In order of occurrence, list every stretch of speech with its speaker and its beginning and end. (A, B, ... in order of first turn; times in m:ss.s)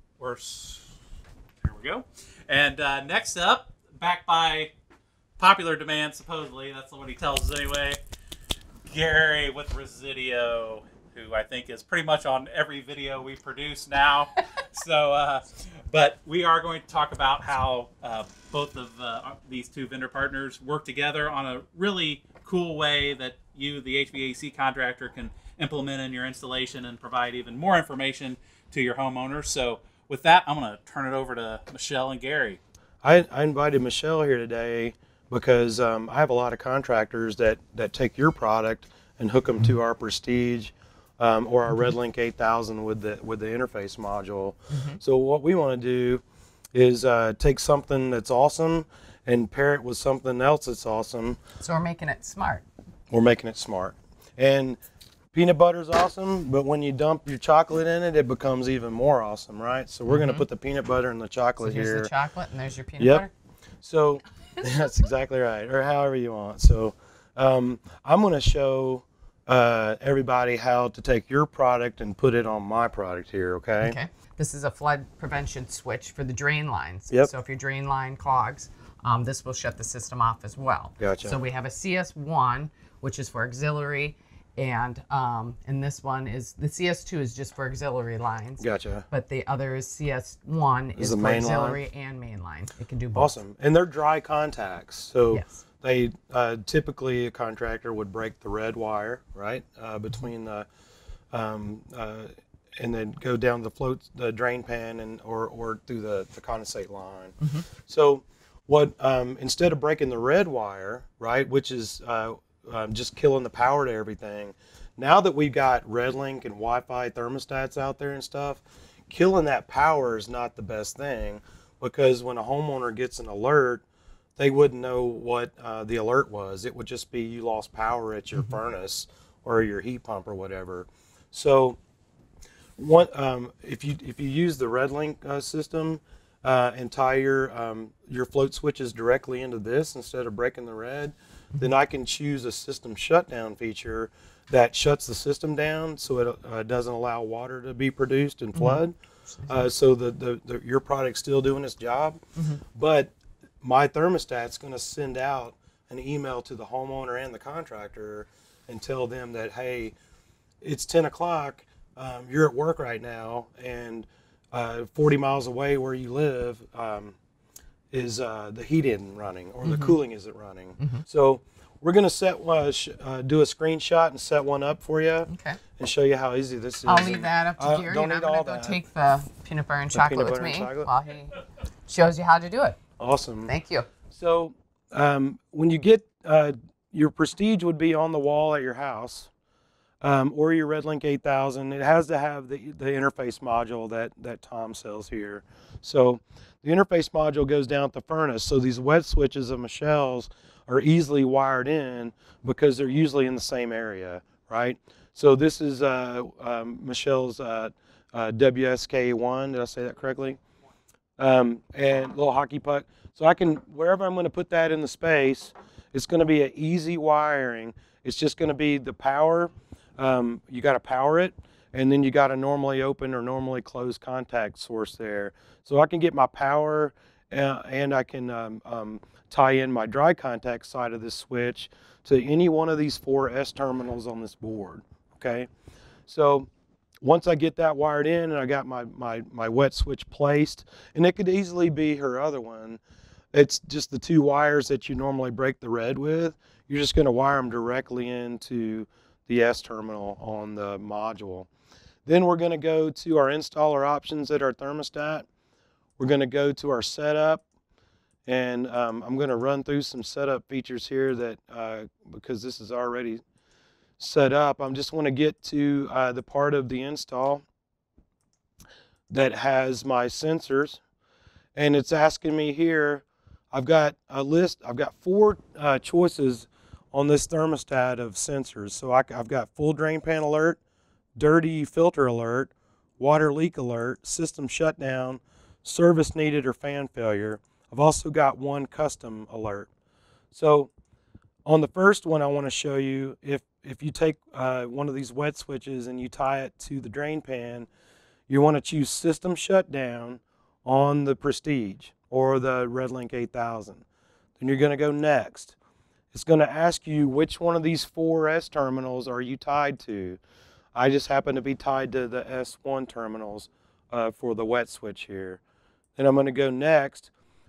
0:00.2-0:01.0 A
0:01.6-0:04.7 A
0:05.4-0:08.0 A
0:08.8-0:32.6 A
0:33.0-0:46.2 B
0:44.7-0:45.0 C
0:46.7-0:51.4 B
0:51.6-0:52.7 C
0:53.1-0:54.8 B
0:55.3-1:02.1 B
1:00.1-1:00.4 C
1:01.6-1:03.3 C
1:03.0-1:03.3 B
1:03.8-1:14.0 B
1:13.8-1:33.4 C
1:21.0-1:21.4 B
1:28.6-1:29.1 B
1:31.0-1:31.8 B
1:33.2-1:40.7 B
1:35.3-1:35.6 C
1:41.3-2:03.8 B
1:47.4-1:47.7 C
2:04.4-2:11.8 B
2:12.8-2:28.9 B
2:28.5-2:29.7 C
2:29.5-2:32.2 B
2:32.7-2:39.9 B
2:40.6-2:47.2 B
2:47.9-2:58.8 B
2:49.6-2:50.0 C
2:55.3-2:55.6 C
2:56.8-3:02.8 C
2:59.9-3:00.9 B
3:03.0-3:03.5 B
3:03.4-3:03.9 C
3:04.1-3:09.3 B
3:10.0-3:30.4 B
3:31.2-3:55.5 B
3:56.1-3:56.5 B
3:57.0-4:02.8 B
4:03.3-4:11.5 B
4:12.1-4:15.3 B
4:16.0-4:17.4 B
4:18.3-4:23.2 B
4:24.0-4:27.4 B
4:29.1-4:30.8 B
4:31.6-4:40.6 B
4:41.2-4:49.7 B
4:50.3-4:50.7 B
4:51.4-4:57.7 B
4:58.3-5:03.8 B
5:04.4-5:05.6 B
5:06.1-5:10.2 B
5:10.7-5:15.4 B
5:16.0-5:17.1 B